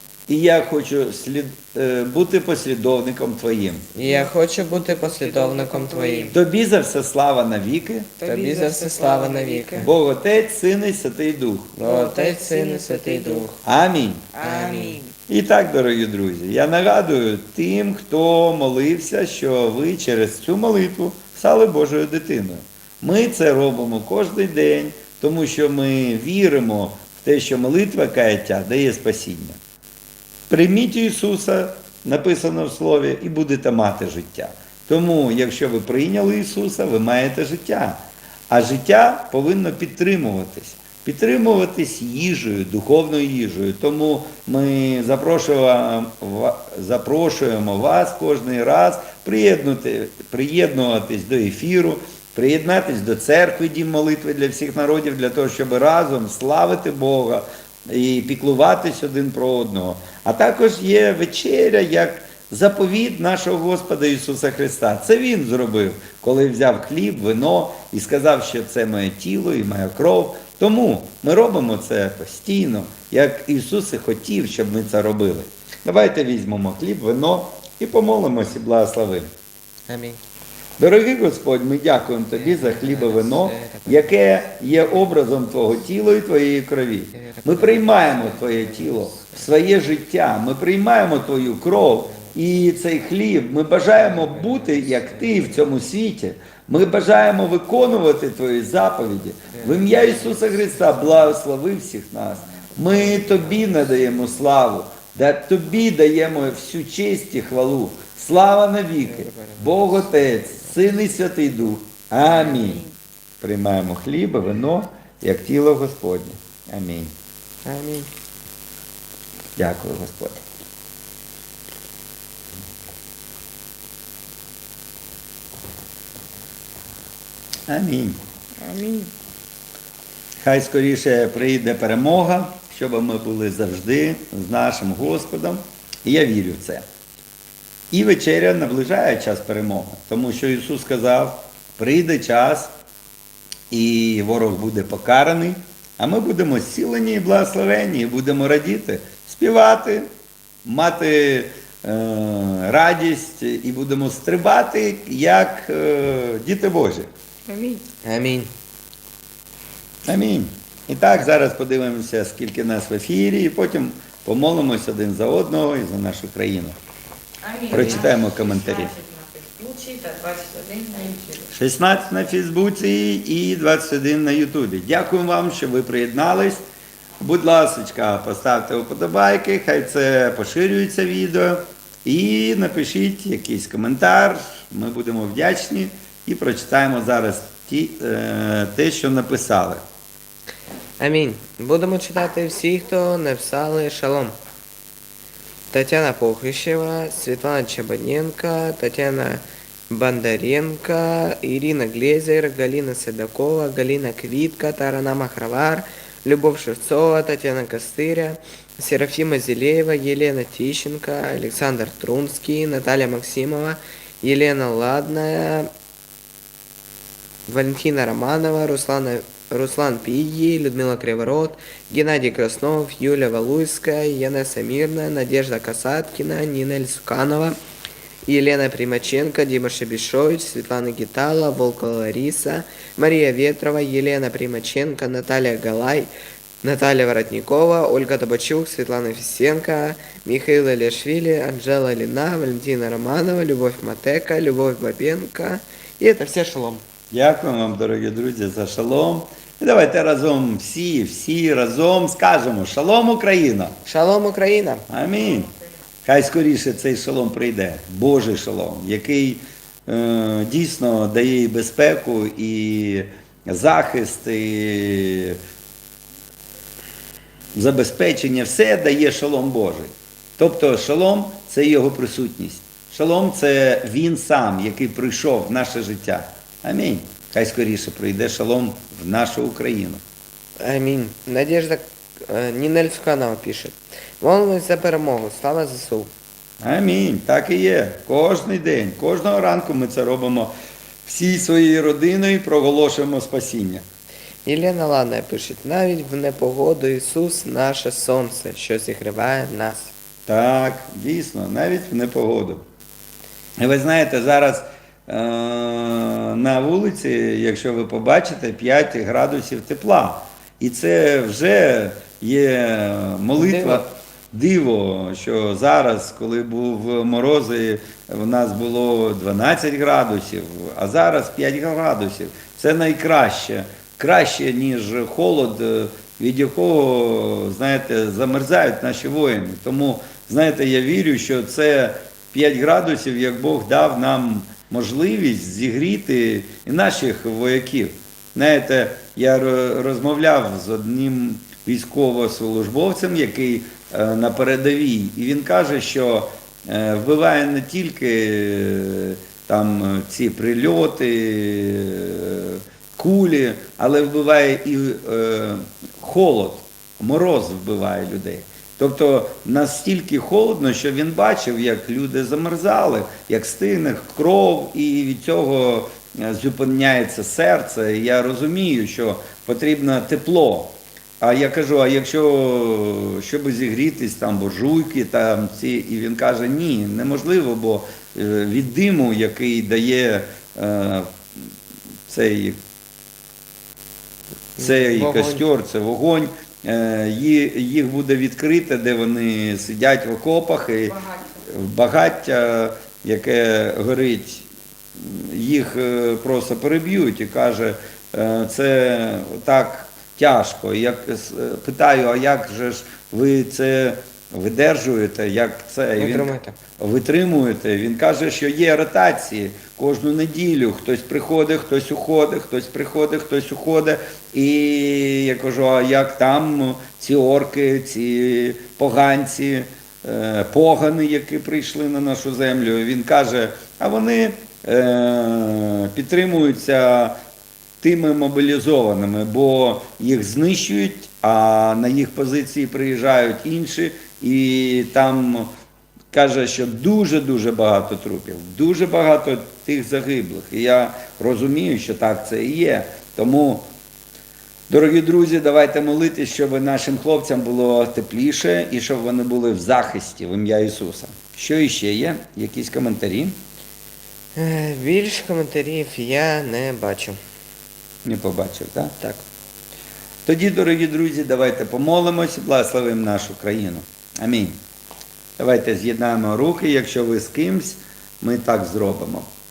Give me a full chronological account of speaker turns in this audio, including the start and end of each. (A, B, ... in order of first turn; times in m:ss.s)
0:00.3-0:03.9 A
0:03.9-0:06.3 B
0:04.0-0:06.4 C
0:06.3-0:08.1 A
0:08.2-0:09.9 C
0:08.2-0:09.9 B
0:09.8-0:11.8 A
0:11.8-0:13.5 C
0:11.8-0:13.6 B
0:13.6-0:14.3 A
0:14.3-0:15.1 C
0:14.4-0:15.0 B
0:15.3-0:29.6 A
0:30.5-1:19.3 A
1:19.9-1:20.2 B
1:20.8-1:52.8 A
1:22.3-1:24.9 B
1:27.1-1:29.5 B
1:31.8-1:32.3 B
1:34.0-1:35.6 B
1:39.5-1:41.2 B
1:43.0-1:43.6 C
1:49.0-1:50.9 B
1:52.2-1:52.9 C
1:53.4-1:57.1 A
1:57.6-1:58.1 B
1:59.6-2:00.4 A
2:07.7-2:08.2 A
2:08.6-2:09.1 C
2:10.4-2:16.8 A
2:17.9-2:22.7 A
2:23.7-2:30.1 A
2:30.6-2:37.1 A
2:37.5-2:37.8 C
2:38.0-2:38.5 B
2:40.0-2:46.8 A
2:47.4-2:51.5 C
2:47.7-2:48.9 A
2:51.5-2:56.6 A
2:57.2-3:09.8 A
3:11.0-3:14.3 B
3:15.7-3:35.7 B
3:37.5-3:47.6 B
3:48.2-3:56.1 B
3:56.6-4:06.8 B
4:07.1-4:13.8 A
4:13.8-4:14.8 B
4:14.9-4:15.5 A
4:16.0-4:25.4 A
4:27.5-4:40.0 A
4:40.6-4:46.1 B
4:46.6-4:50.5 A
4:51.0-4:53.8 A
4:54.4-4:59.9 B
5:00.3-5:02.6 A
5:03.6-6:21.5 A
5:13.4-5:13.8 B
6:22.1-6:22.6 A
6:24.6-6:25.4 B
6:24.6-7:07.2 A
6:46.0-6:46.6 B
7:07.8-7:15.5 A
7:16.1-7:23.7 A
7:24.7-7:33.4 A
7:34.4-7:37.2 B
7:38.0-7:39.0 A
7:40.2-7:44.6 A
7:45.4-7:49.3 A